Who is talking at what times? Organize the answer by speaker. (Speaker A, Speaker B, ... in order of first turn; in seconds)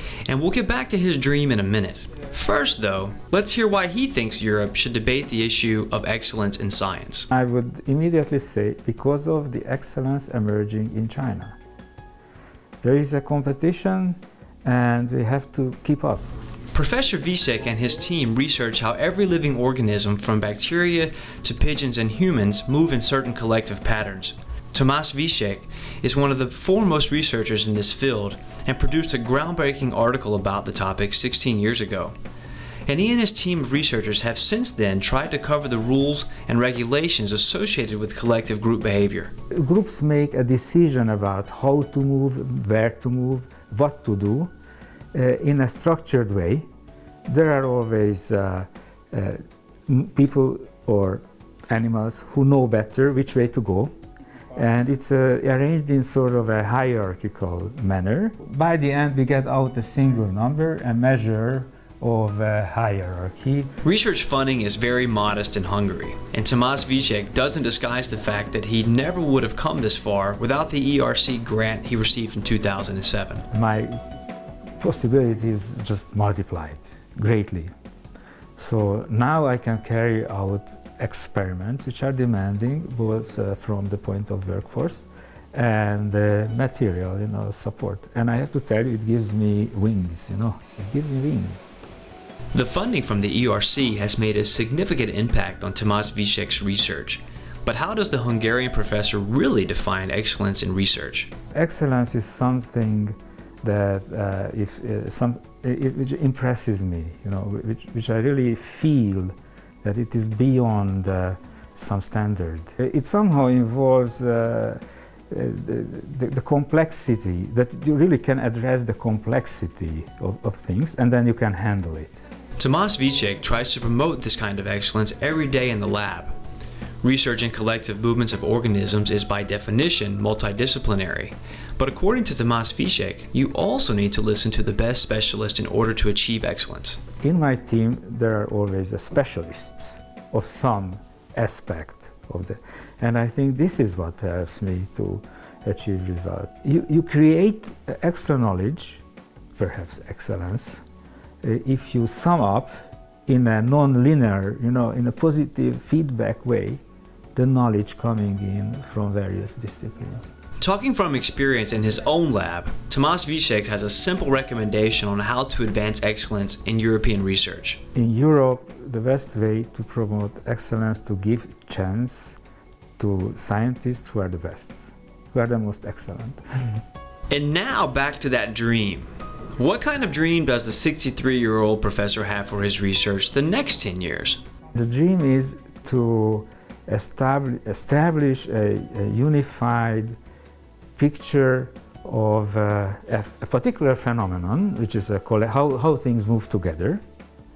Speaker A: 0.3-7.3, 16.7-32.1, 32.9-39.3, 63.8-73.5, 92.5-101.3, 122.6-126.3, 127.0-137.0, 160.6-167.8, 177.3-184.4
Speaker B: 7.3-11.6, 12.8-16.3, 39.5-44.5, 45.1-46.7, 47.3-53.9, 54.5-63.7, 73.5-74.0, 74.8-77.7, 78.6-91.7, 101.5-122.2, 137.2-149.0, 149.6-150.8, 151.4-152.7, 153.3-156.8, 157.3-160.3, 167.9-172.4, 173.0-176.8, 184.8-190.2, 191.0-197.0